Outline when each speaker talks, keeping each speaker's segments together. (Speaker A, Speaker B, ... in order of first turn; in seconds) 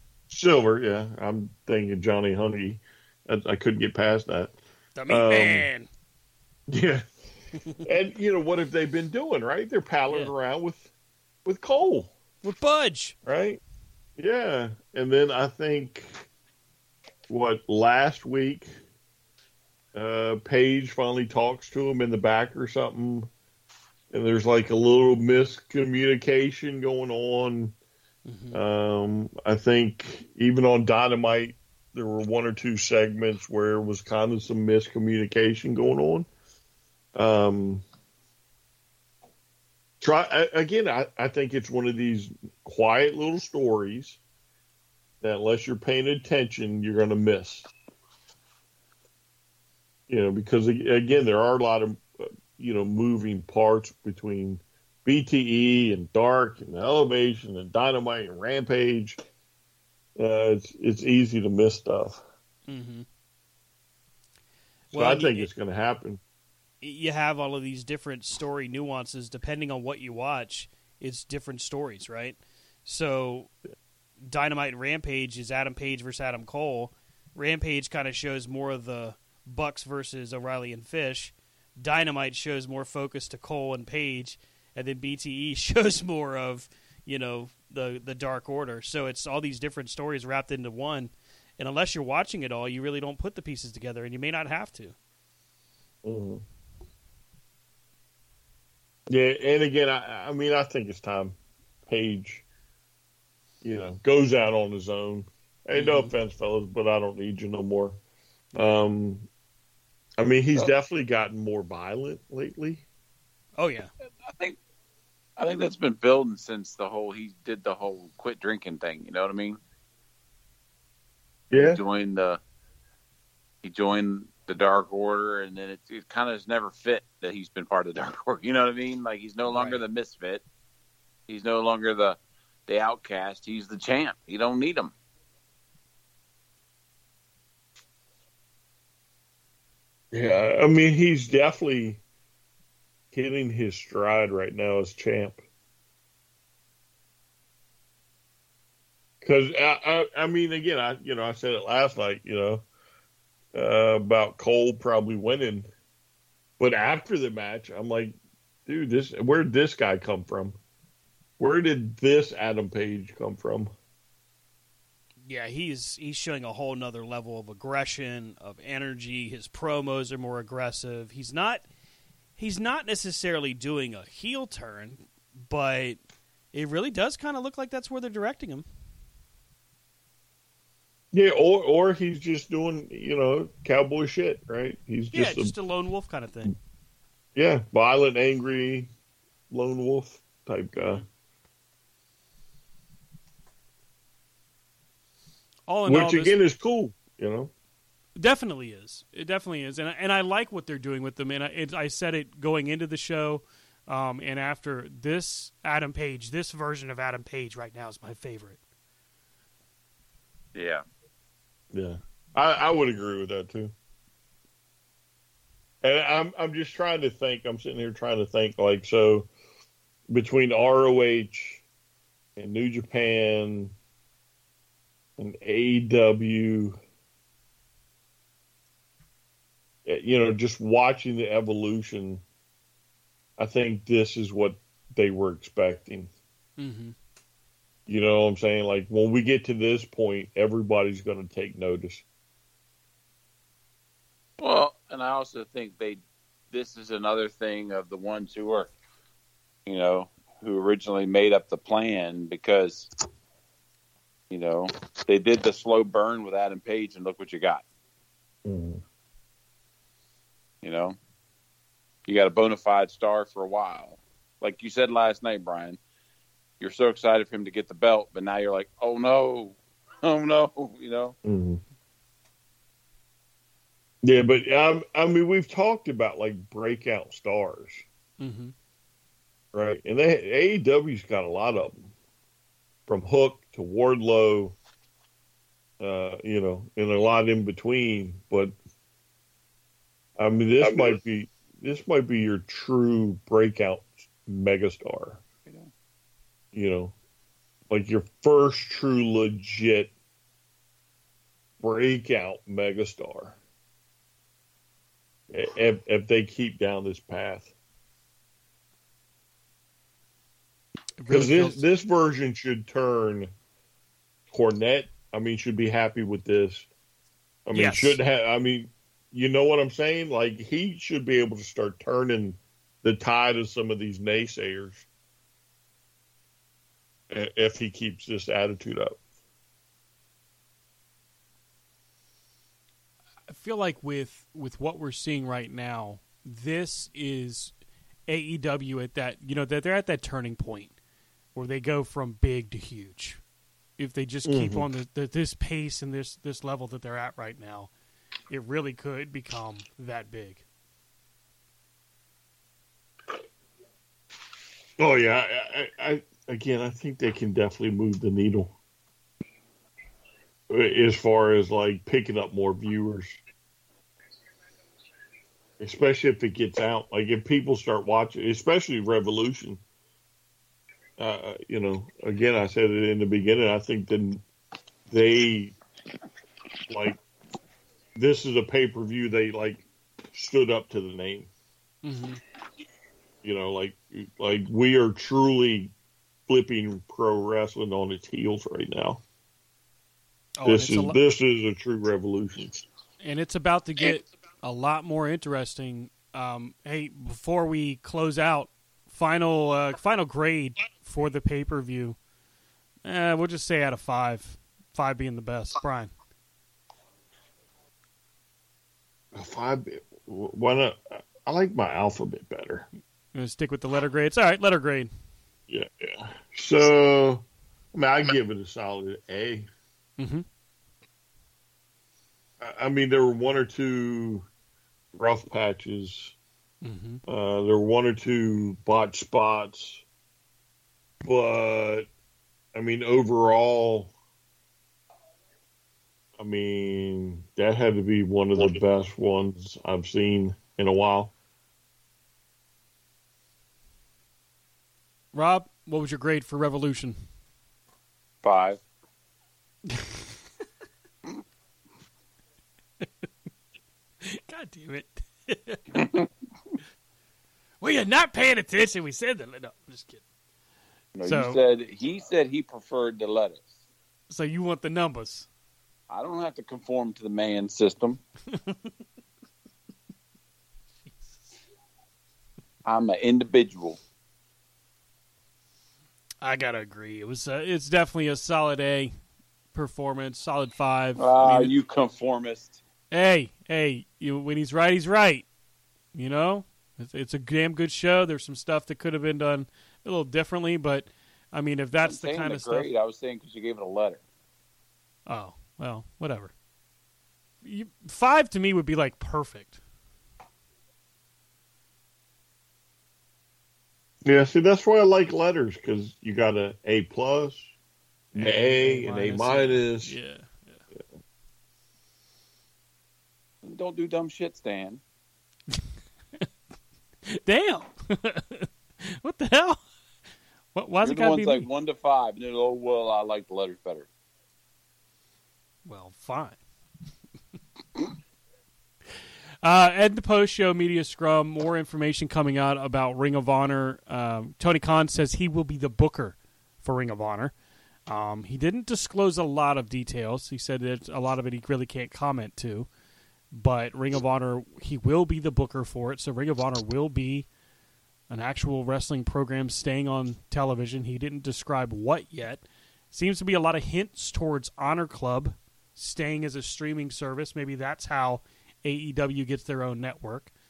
Speaker A: 0.3-4.5, 5.1-5.7, 6.7-7.1, 7.8-10.9, 11.4-12.1, 13.2-13.6, 14.2-16.3, 17.3-18.7, 19.9-23.3, 24.1-27.8, 28.5-36.3, 37.2-37.8, 40.0-44.2, 45.2-47.7, 50.1-59.2, 60.2-62.2, 64.9-66.2, 96.0-96.4, 99.1-101.4, 101.9-102.4, 103.6-108.0, 108.5-109.3, 110.2-112.8, 121.5-121.8, 140.1-142.0, 143.1-145.4, 149.2-152.7, 153.5-155.7, 156.6-160.6, 161.4-163.7, 181.1-185.5, 187.3-188.9, 189.5-191.0, 195.9-197.5, 211.7-213.7, 215.8-219.3, 220.1-221.6, 222.4-223.7, 225.2-226.8, 229.8-232.2, 233.4-236.1, 237.9-242.0, 258.4-258.8, 271.2-271.6, 274.0-277.8, 279.5-281.9, 282.9-284.6, 285.8-288.6, 290.2-295.2, 296.5-296.9, 297.7-299.9, 301.6-303.4, 305.3-307.5, 311.1-313.3, 314.3-316.7, 317.5-324.9, 327.1-329.0, 344.2-344.7, 354.8-358.5, 360.5-363.2, 365.6-369.6, 371.0-374.2, 374.9-375.6, 376.7-377.0, 378.0-381.3, 383.2-385.7, 386.3-389.0, 390.4-392.6, 409.1-412.7, 415.5-419.5, 422.4-424.3, 424.9-426.2, 427.1-429.8, 431.0-431.9, 432.5-433.9, 436.2-441.1, 504.0-507.5, 508.1-510.0
Speaker B: 5.0-5.9, 12.4-13.2, 28.3-28.6, 62.7-63.1, 64.9-65.5, 66.8-73.5, 74.3-95.0, 105.8-106.1, 113.6-113.9, 129.5-129.8, 165.3-171.7, 172.4-176.0, 176.5-178.7, 185.1-186.6, 195.7-196.4, 198.2-208.6, 236.6-237.0, 278.2-278.5, 311.0-311.6, 317.5-318.0, 333.3-337.5, 338.1-340.7, 341.4-343.2, 343.8-347.7, 348.3-350.4, 381.8-382.2, 390.4-391.0, 393.0-402.0, 402.9-405.9, 413.1-414.9, 420.0-420.2, 426.6-427.0, 445.1-447.0, 449.7-450.0, 452.8-453.1, 454.0-455.9, 457.6-460.0, 461.1-461.4, 464.1-465.3, 468.3-468.7, 471.0-471.2, 476.2-478.9, 479.5-481.5, 482.9-485.3, 485.9-492.7, 495.1-496.3, 497.4-499.6, 508.1-510.6, 517.1-519.6, 520.5-521.5, 525.7-526.4, 529.4-537.3, 537.9-542.7, 543.3-547.3, 548.1-560.3
Speaker C: 115.4-119.6, 121.6-122.4, 123.6-130.4, 131.3-134.9, 210.5-210.8, 244.4-246.0, 246.5-248.7, 249.7-252.9, 254.3-257.6, 260.6-261.0, 262.1-265.8, 266.6-271.2, 295.4-295.7, 448.2-448.6, 460.9-463.5, 465.9-468.0, 472.6-473.8, 481.0-482.6, 491.8-494.0, 513.4-514.8, 520.8-523.9